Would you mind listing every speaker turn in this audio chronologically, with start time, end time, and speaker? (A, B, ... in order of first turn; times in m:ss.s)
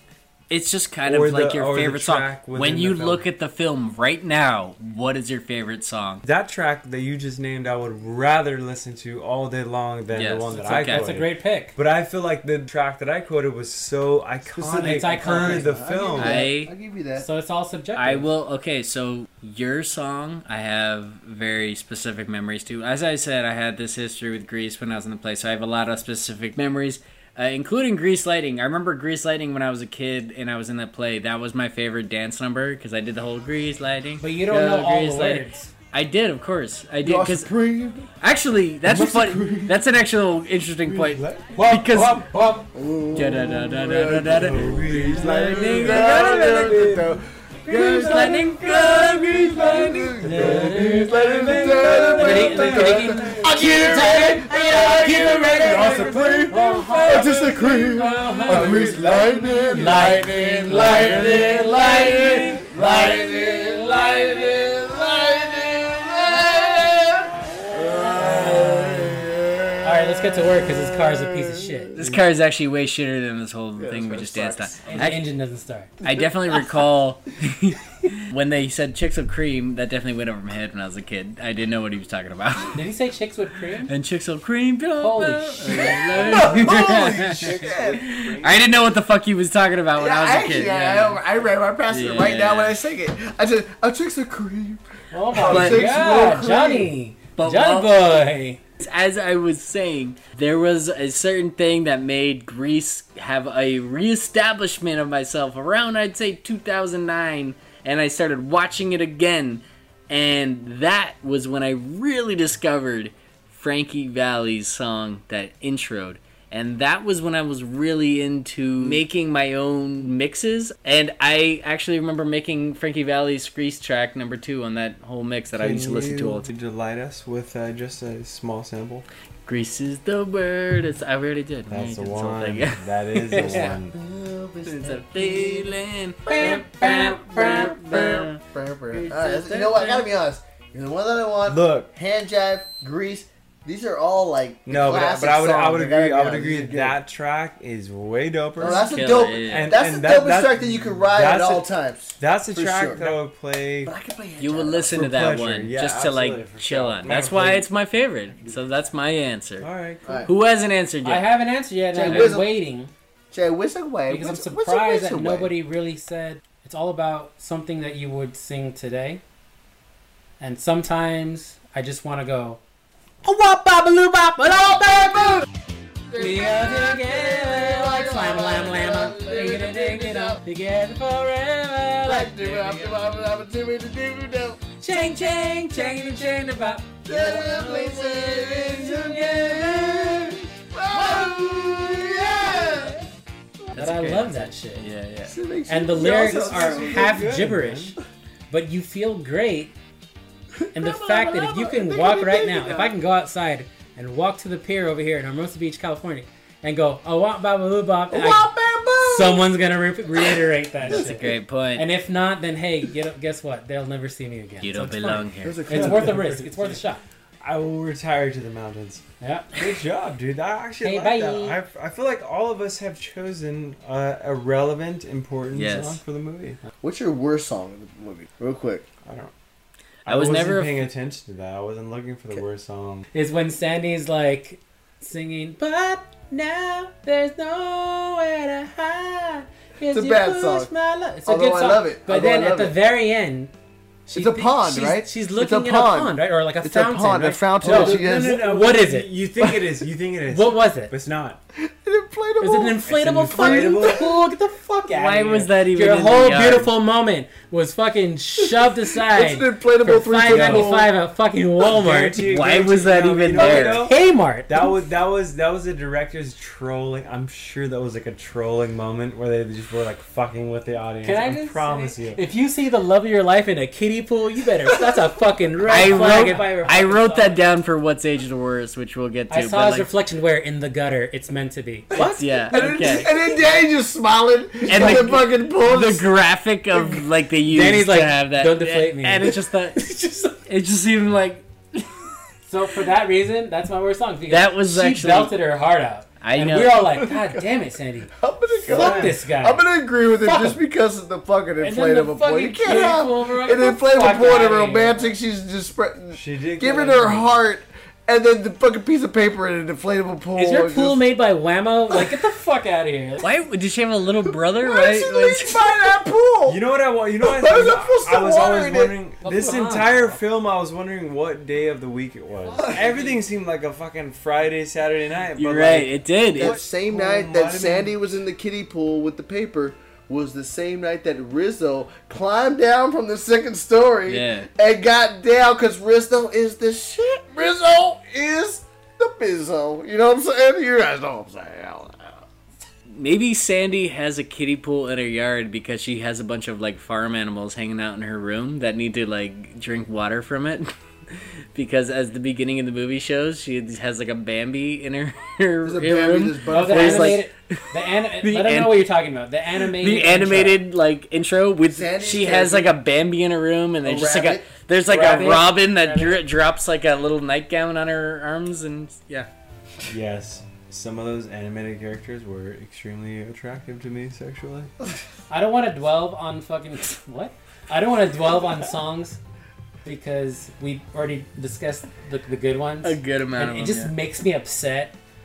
0:00.5-0:06.2 A
0:01.0-0:03.2 B
0:06.2-0:16.4 B
0:10.1-0:11.0 A
0:10.6-0:11.7 C
0:14.5-0:17.2 D
0:14.8-0:15.7 C
0:16.2-0:16.7 A
0:17.2-0:18.3 C
0:17.9-0:37.5 A
0:34.2-0:35.7 C
0:37.0-0:38.1 D
0:38.2-0:42.3 A
0:38.9-0:39.8 D
0:39.0-0:39.5 B
0:40.8-0:42.6 B
0:42.7-1:10.4 D
0:43.1-0:46.8 A
0:44.3-0:47.2 B
0:47.7-0:50.4 A
0:50.2-0:53.6 B
0:50.3-0:51.1 C
0:52.2-1:04.3 C
0:56.0-0:56.7 B
0:58.4-0:59.9 B
1:08.1-1:09.2 C
1:09.8-1:11.9 C
1:10.9-1:12.0 D
1:12.0-1:15.2 A
1:13.8-1:14.9 D
1:14.9-1:15.9 C
1:16.0-1:22.8 A
1:16.0-1:16.7 D
1:22.7-1:23.9 C
1:23.8-1:31.2 A
1:25.0-1:26.2 C
1:25.8-1:28.0 D
1:26.3-1:28.7 B
1:29.9-1:34.8 D
1:31.9-1:32.8 A
1:35.1-1:38.6 C
1:35.3-1:36.9 D
1:35.4-1:35.9 A
1:37.4-1:37.9 A
1:38.8-2:06.4 A
2:05.5-2:09.0 B
2:09.4-2:13.8 A
2:11.7-2:13.9 B
2:13.4-2:15.7 D
2:14.6-2:18.4 A
2:16.2-2:27.0 D
2:16.4-2:16.6 C
2:18.9-2:20.0 A
2:21.4-2:21.9 B
2:24.6-2:28.9 B
2:28.6-2:33.2 D
2:28.6-2:29.8 A
2:29.4-2:33.9 B
2:33.8-2:35.0 D
2:34.4-2:39.7 A
2:34.9-2:37.7 B
2:39.6-2:40.2 B
2:40.0-2:40.3 D
2:40.2-2:41.2 A
2:41.0-2:42.9 C
2:41.9-2:42.5 D
2:42.1-2:42.3 A
2:43.3-2:45.5 D
2:44.1-2:49.2 C
2:50.4-2:52.6 C
2:53.2-2:55.4 C
2:56.1-3:00.4 D
2:56.2-3:03.0 C
3:02.0-3:04.7 D
3:04.8-3:10.3 C
3:07.0-3:13.0 D
3:10.9-3:11.3 C
3:11.9-3:13.0 C
3:13.7-3:14.8 C
3:13.7-3:15.3 A
3:15.3-3:17.3 D
3:15.7-3:18.0 C
3:16.0-3:18.0 B
3:18.5-3:19.7 C
3:20.6-3:23.0 D
3:20.7-3:28.5 C
3:28.1-3:29.5 D
3:29.0-3:37.0 C
3:30.2-3:31.1 D
3:30.9-3:31.8 A
3:34.6-3:35.7 A
3:35.4-3:36.4 D
3:35.7-3:36.8 B
3:37.4-3:46.6 B
3:39.2-3:39.5 C
3:40.8-3:41.6 C
3:45.5-3:46.0 A
3:46.8-3:48.9 D
3:49.0-3:49.3 B
3:50.0-3:50.9 A
3:50.0-3:53.0 B
3:53.1-4:03.5 C
3:59.9-4:00.7 D
4:01.2-4:02.8 D
4:04.1-4:09.1 C
4:04.1-4:08.4 D
4:07.6-4:11.4 B
4:10.3-4:10.9 C
4:11.6-4:14.1 D
4:12.4-4:22.3 C
4:12.9-4:14.1 B
4:14.9-4:16.7 A
4:18.4-4:20.9 D
4:20.3-4:20.7 A
4:21.6-4:32.2 B
4:22.2-4:23.8 A
4:23.3-4:24.7 C
4:31.0-4:37.4 C
4:35.7-4:39.9 A
4:39.3-4:43.3 C
4:41.9-4:46.1 D
4:42.0-4:43.1 A
4:44.6-4:49.8 A
4:47.4-4:50.4 C
4:50.4-4:52.0 A
4:52.5-4:58.1 C
4:54.3-4:55.4 A
4:56.2-4:56.8 A
4:57.0-4:57.4 D
4:58.2-5:11.0 D
4:58.6-4:59.2 B
4:58.7-4:59.7 C
5:00.2-5:00.6 C
5:01.6-5:05.1 C
5:06.1-5:07.4 B
5:10.4-5:13.2 C
5:13.2-5:15.6 A
5:14.6-5:16.6 D
5:16.5-5:27.9 B
5:17.2-5:19.0 D
5:19.2-5:20.2 C
5:25.4-5:26.5 A
5:26.4-5:42.2 D
5:34.1-5:34.5 A
5:42.9-5:57.2 A
5:55.6-5:57.2 D
5:56.5-6:00.6 C
5:58.2-5:58.8 A
5:59.7-6:09.3 A
6:01.7-6:02.8 D
6:03.8-6:04.5 D
6:04.9-6:06.2 C
6:09.9-6:14.7 B
6:15.3-6:19.2 C
6:19.8-6:24.9 C
6:22.8-6:23.9 A